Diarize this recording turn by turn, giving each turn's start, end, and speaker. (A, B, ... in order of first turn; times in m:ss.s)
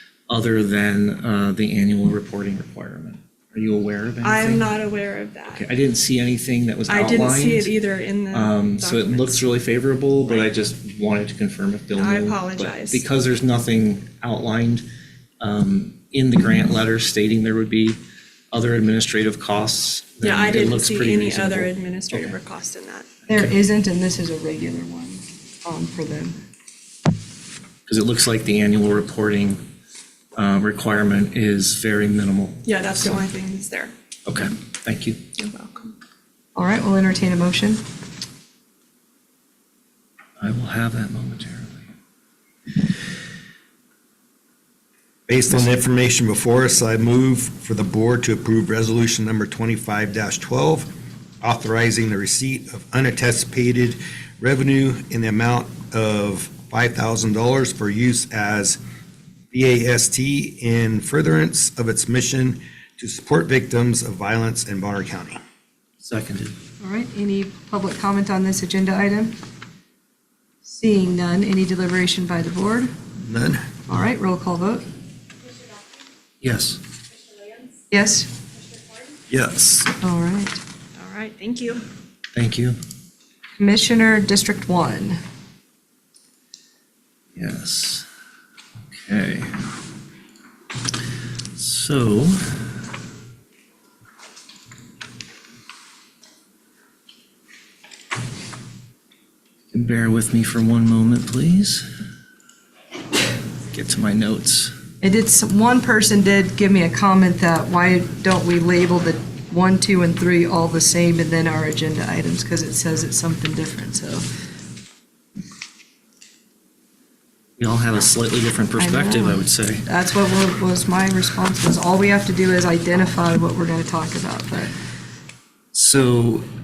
0:00.3-0:04.7 A
0:04.2-0:05.7 B
0:05.5-0:07.8 A
0:06.9-0:09.4 B
0:08.3-0:14.8 A
0:12.0-0:13.0 B
0:15.4-0:18.0 A
0:18.5-0:22.3 A
0:20.2-0:23.1 B
0:23.3-0:26.4 C
0:27.9-0:29.6 A
0:30.4-0:33.2 A
0:32.6-0:33.9 B
0:34.3-0:35.2 A
0:35.4-0:35.9 B
0:36.6-0:37.8 C
0:40.4-0:41.8 A
0:45.3-0:58.8 D
0:59.5-1:05.4 D
1:06.0-1:06.6 A
1:06.8-1:09.4 C
1:10.6-1:12.9 C
1:13.2-1:13.7 D
1:13.9-1:14.8 C
1:16.4-1:16.8 A
1:17.9-1:18.3 C
1:19.3-1:19.9 D
1:20.0-1:20.6 C
1:21.0-1:21.8 B
1:22.3-1:22.8 A
1:23.6-1:25.2 C
1:27.4-1:28.1 A
1:28.9-1:29.5 A
1:31.6-1:32.5 A
1:39.7-1:41.8 A
1:43.7-1:44.7 A
1:45.0-1:54.2 C
1:57.6-1:59.8 A
1:58.8-2:04.7 C
2:05.7-2:06.4 A